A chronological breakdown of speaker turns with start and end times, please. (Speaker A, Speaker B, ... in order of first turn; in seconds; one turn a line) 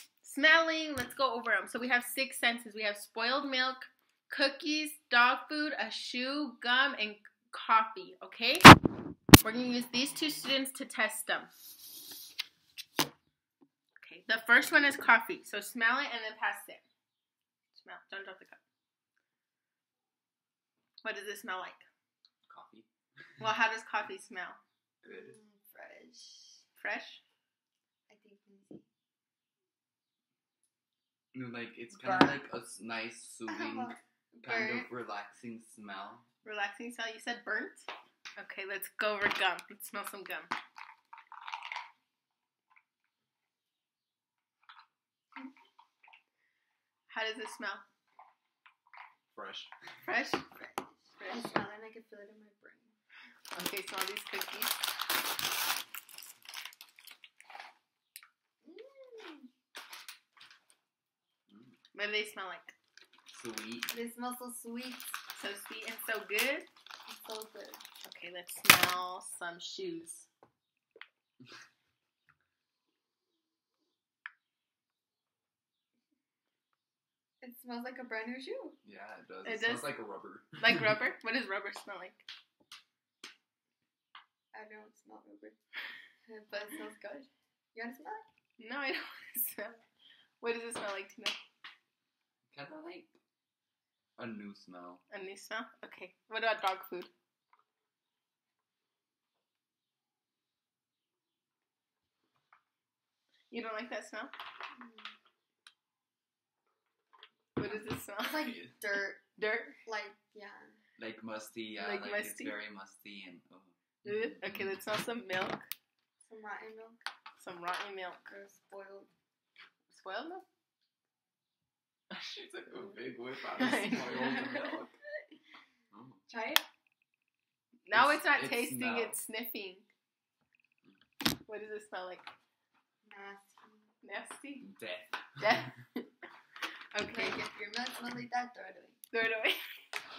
Speaker A: 0.2-8.7
Speaker A: 9.4-11.5
Speaker A: 14.0-16.8
Speaker A: 17.7-18.6
Speaker A: 21.0-21.9
Speaker B: 22.5-22.9
Speaker A: 23.4-24.6
Speaker B: 25.0-25.3
Speaker C: 25.0-26.6
Speaker A: 26.8-27.2
Speaker C: 28.1-28.9
Speaker B: 31.3-36.2
Speaker C: 32.0-32.4
Speaker C: 33.5-34.9
Speaker A: 36.4-40.5
Speaker A: 47.1-47.8
Speaker B: 49.3-49.7
Speaker A: 50.0-50.4
Speaker C: 50.5-52.9
Speaker A: 51.2-51.6
Speaker A: 53.5-54.8
Speaker C: 58.6-59.5
Speaker B: 61.5-61.7
Speaker A: 61.9-62.7
Speaker B: 63.3-63.9
Speaker C: 63.9-65.2
Speaker A: 65.3-66.7
Speaker C: 67.1-67.8
Speaker A: 68.0-70.3
Speaker C: 77.4-78.8
Speaker B: 78.8-80.9
Speaker A: 79.4-80.0
Speaker A: 80.6-82.3
Speaker C: 84.5-85.5
Speaker C: 86.2-88.2
Speaker A: 88.6-89.8
Speaker A: 90.4-91.4
Speaker B: 92.5-93.1
Speaker B: 94.2-95.0
Speaker A: 95.1-97.1
Speaker A: 103.5-104.3
Speaker C: 104.7-105.1
Speaker A: 107.6-108.6
Speaker C: 108.2-109.2
Speaker A: 109.4-109.8
Speaker C: 109.8-110.8
Speaker B: 111.0-114.5
Speaker A: 111.8-112.5
Speaker A: 114.0-115.7
Speaker C: 116.2-117.0
Speaker A: 117.4-118.3
Speaker C: 118.3-119.1
Speaker A: 119.9-120.4
Speaker B: 122.1-125.0
Speaker A: 123.5-124.6
Speaker B: 125.9-126.2
Speaker C: 126.3-126.6
Speaker A: 127.8-129.8
Speaker B: 127.9-129.2
Speaker A: 131.4-132.3
Speaker C: 133.0-133.9
Speaker A: 134.0-134.7
Speaker B: 134.6-135.6
Speaker A: 135.4-136.1
Speaker A: 136.9-137.4
Speaker C: 137.1-139.0
Speaker A: 139.1-139.6